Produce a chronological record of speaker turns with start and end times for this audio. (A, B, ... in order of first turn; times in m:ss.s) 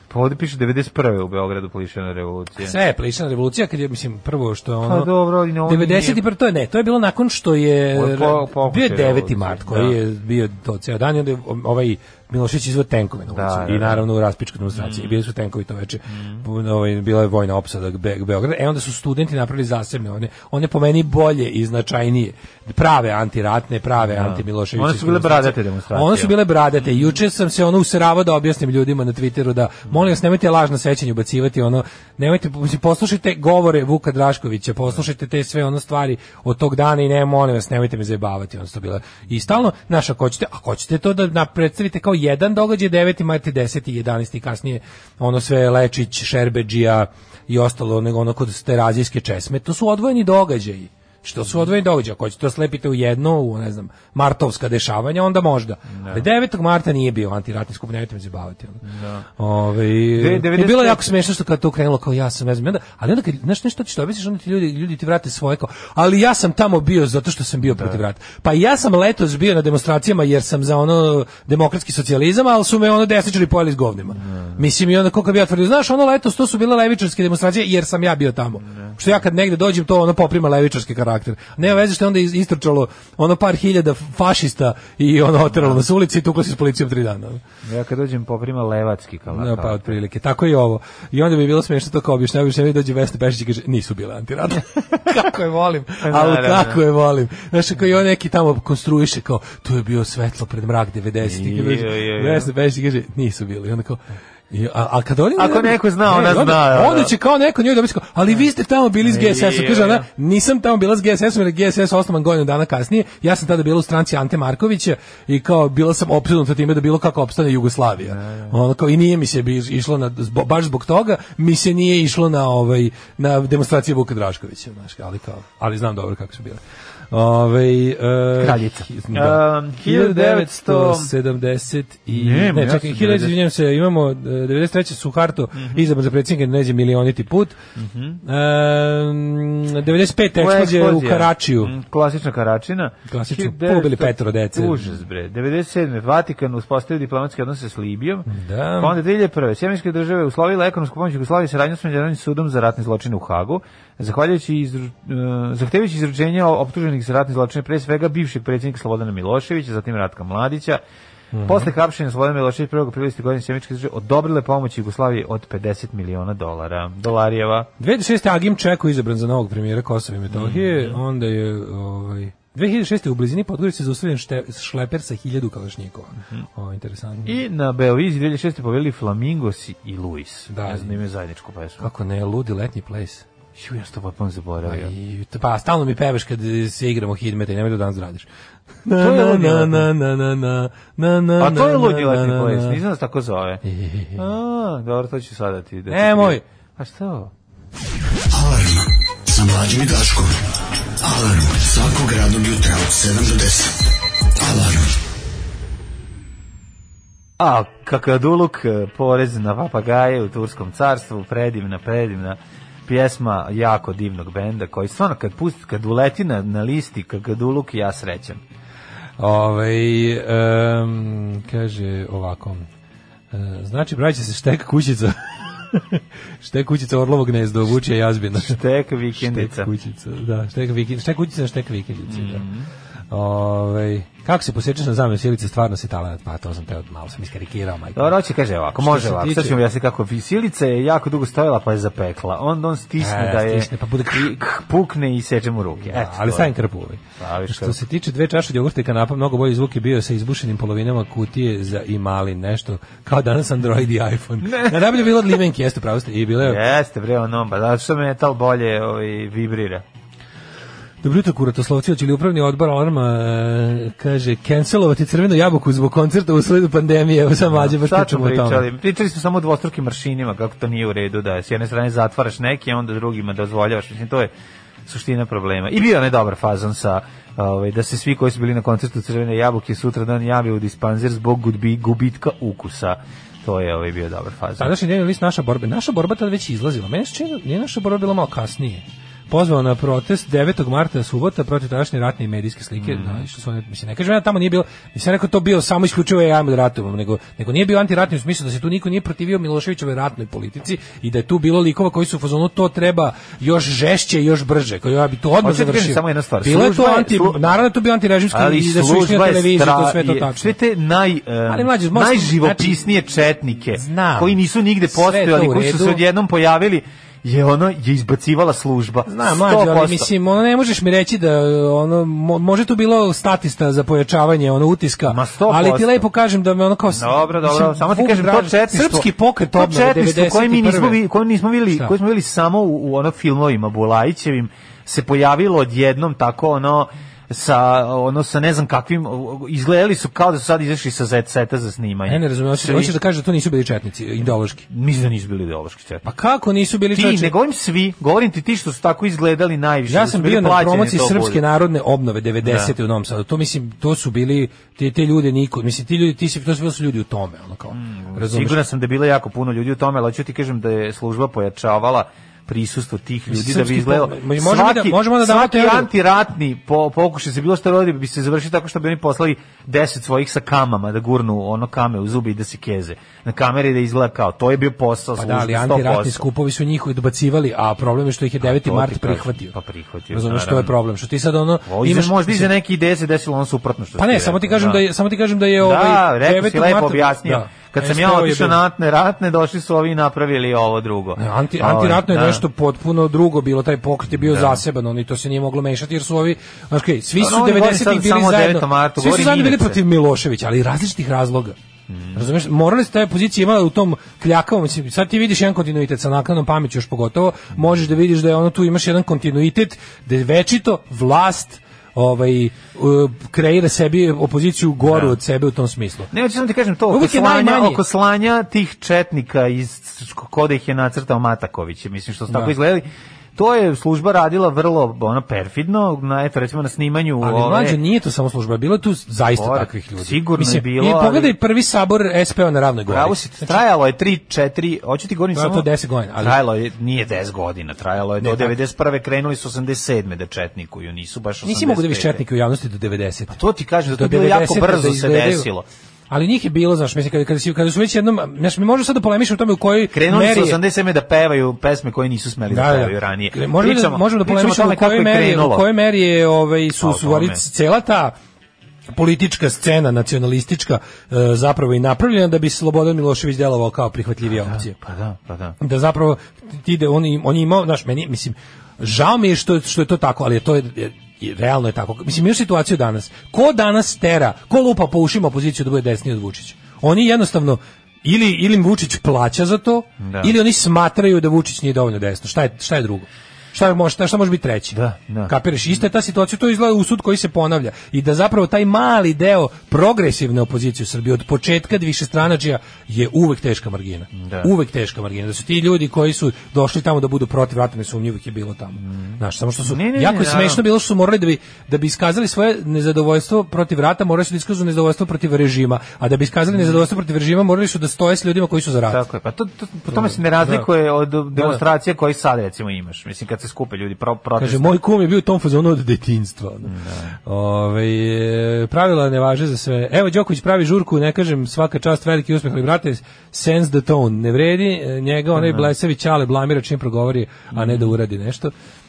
0:00.1-0:02.8 A
0:02.6-0:05.1 B
0:04.8-0:06.2 A
0:05.6-0:58.8 B
0:07.9-0:10.0 A
0:13.3-0:14.0 A
0:14.7-0:15.2 A
0:16.1-0:16.4 A
0:24.1-0:26.4 A
0:55.9-0:56.2 A
0:58.8-0:59.2 A
0:59.4-1:27.4 B
1:00.1-1:01.0 A
1:07.7-1:08.0 A
1:14.2-1:14.6 A
1:18.6-1:19.0 A
1:25.5-1:25.8 A
1:27.6-1:30.0 A
1:29.3-2:17.6 B
1:36.0-1:36.8 A
1:41.2-1:42.5 A
1:45.4-1:47.1 A
1:49.0-1:50.0 A
1:58.1-1:58.5 A
2:08.4-2:11.1 A
2:12.1-2:13.3 A
2:15.5-2:15.8 A
2:17.8-2:18.2 A
2:18.2-2:21.7 B
2:20.4-2:40.8 A
2:23.1-2:24.9 B
2:28.3-2:29.0 B
2:41.3-2:41.7 B
2:41.4-2:47.7 A
2:47.8-2:57.4 B
2:50.3-2:51.0 A
2:56.2-2:56.4 A
2:57.2-3:01.9 A
3:00.5-3:01.0 B
3:01.8-3:03.2 B
3:03.6-3:04.9 A
3:04.7-3:08.3 B
3:08.8-3:12.8 B
3:09.0-3:09.9 A
3:11.4-3:13.6 A
3:13.6-3:14.2 B
3:14.1-3:17.3 A
3:15.9-3:16.4 B
3:18.3-3:20.4 C
3:21.0-3:25.0 C
3:27.4-3:38.4 A
3:39.2-3:42.7 B
3:43.3-3:48.6 B
3:48.4-3:49.7 A
3:49.1-3:52.4 B
3:52.1-3:52.7 A
3:53.1-3:58.1 B
3:58.0-4:06.5 A
3:58.8-3:59.6 B
4:03.0-4:04.4 B
4:05.8-4:16.6 B
4:07.2-4:07.8 A
4:14.4-4:15.0 A
4:16.4-4:19.8 A
4:21.0-4:28.6 B
4:27.5-4:34.3 A
4:34.8-4:44.7 A
4:44.6-5:10.5 B
4:52.8-4:53.2 A
5:05.4-5:07.4 A
5:08.3-5:20.1 A
5:11.5-5:12.8 B
5:13.7-5:14.4 B
5:14.9-5:16.0 B
5:19.1-5:31.0 B
5:25.1-5:26.0 A
5:26.9-5:42.9 A
5:42.1-5:44.7 B
5:44.7-5:46.0 A
5:46.0-5:47.3 B
5:46.9-5:51.4 A
5:49.9-5:58.6 B
5:52.4-5:52.7 A
5:57.7-6:16.2 A
6:03.3-6:05.9 B
6:15.2-6:19.5 B
6:18.4-6:20.7 A
6:20.1-6:22.5 B
6:21.6-6:24.8 A
6:24.0-6:28.6 B
6:25.6-6:32.4 A
6:31.2-6:41.6 B
6:34.2-6:34.6 A
6:37.2-6:39.8 A
6:41.9-6:42.2 A
6:42.1-6:56.1 B
6:54.8-6:55.2 A
6:56.1-7:07.8 A
6:56.9-6:57.8 B
7:07.2-7:13.6 B
7:09.3-7:11.3 A
7:12.9-7:22.2 A
7:15.3-7:16.4 B
7:18.2-7:18.5 B
7:21.4-7:23.4 B
7:23.3-7:25.6 A
7:23.9-7:25.5 B
7:26.1-7:30.6 B
7:29.9-7:35.6 A
7:32.5-7:38.1 B
7:36.8-7:37.4 A
7:38.9-7:44.7 B
7:44.3-7:45.6 A
7:45.6-8:29.0 B
8:00.0-8:00.3 A
8:04.7-8:05.3 A
8:14.1-8:14.5 A
8:18.8-8:20.6 A
8:28.9-8:34.8 A
8:29.9-8:30.7 B
8:31.3-8:31.6 B
8:34.4-8:48.5 B
8:36.6-8:37.2 A
8:45.3-8:45.7 A
8:47.5-8:47.9 A